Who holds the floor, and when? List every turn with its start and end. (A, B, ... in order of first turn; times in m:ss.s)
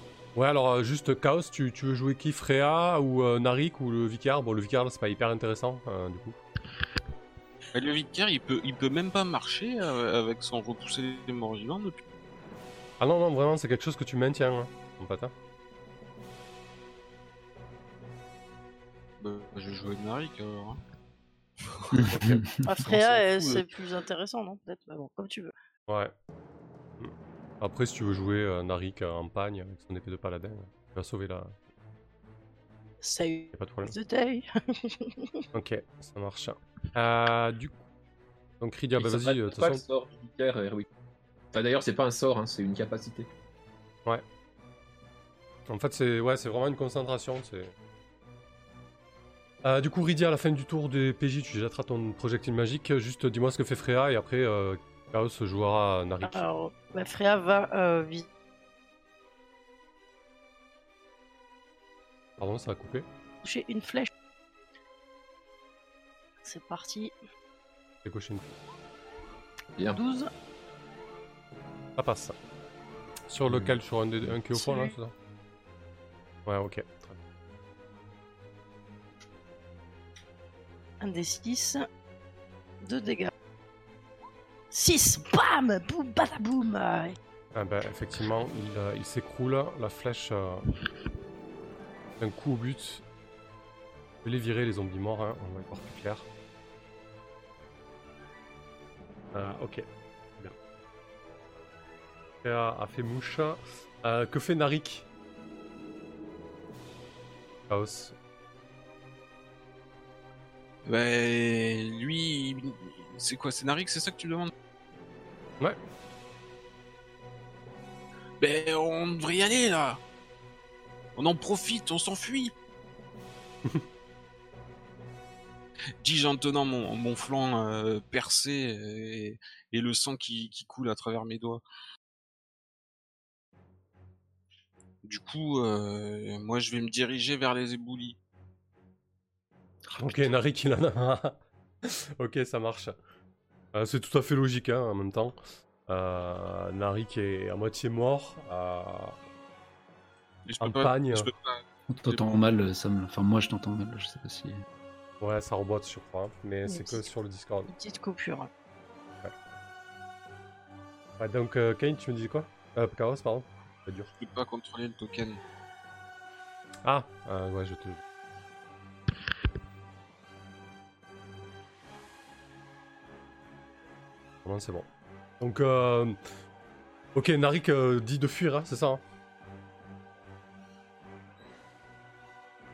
0:00.3-0:06.4 A
0:07.7-0:12.0 B
0:13.0-0:15.3 A
0:19.2-0:20.8 B
0:21.7-0:22.2 B
0:21.9-0:22.7 C
0:22.1-0:22.4 A
0:22.6-0:25.5 D
0:22.8-0:23.6 B
0:25.9-0:26.1 A
0:27.0-0:31.6 A
0:33.0-0:35.4 D
0:33.5-0:33.9 A
0:35.5-0:37.8 A
0:38.6-0:39.8 A
0:39.0-0:40.8 E
0:41.5-0:43.3 E
0:45.7-0:47.7 A
0:49.6-0:56.4 A
0:56.2-0:58.2 D
1:02.4-1:03.0 A
1:03.4-1:04.1 D
1:06.4-1:07.1 D
1:08.0-1:08.6 A
1:10.0-1:10.3 D
1:12.0-1:12.4 A
1:13.3-1:15.1 A
1:13.4-1:13.7 E
1:14.5-1:14.9 D
1:16.4-1:17.2 A
1:21.0-1:21.9 D
1:22.8-1:23.3 D
1:24.7-1:27.2 D
1:27.5-1:30.7 A
1:32.2-1:33.0 A
1:34.2-1:36.3 A
1:39.3-1:39.8 A
1:42.4-1:45.0 A
1:47.7-1:48.1 A
1:50.8-1:54.5 B
1:58.4-2:00.0 B
2:01.2-2:02.5 B
2:06.0-2:11.6 B
2:15.0-2:18.2 B
2:19.9-2:22.9 A
2:23.7-2:29.2 A
2:30.4-2:32.2 B
2:30.6-2:31.3 A
2:31.9-2:34.6 C
2:35.2-2:37.7 A
2:36.7-2:37.1 D
2:37.7-2:38.5 D
2:41.2-2:44.1 A
2:44.2-2:45.4 B
2:46.8-2:48.0 A
2:54.4-2:54.9 A
2:55.4-2:56.2 A
2:57.1-2:59.0 A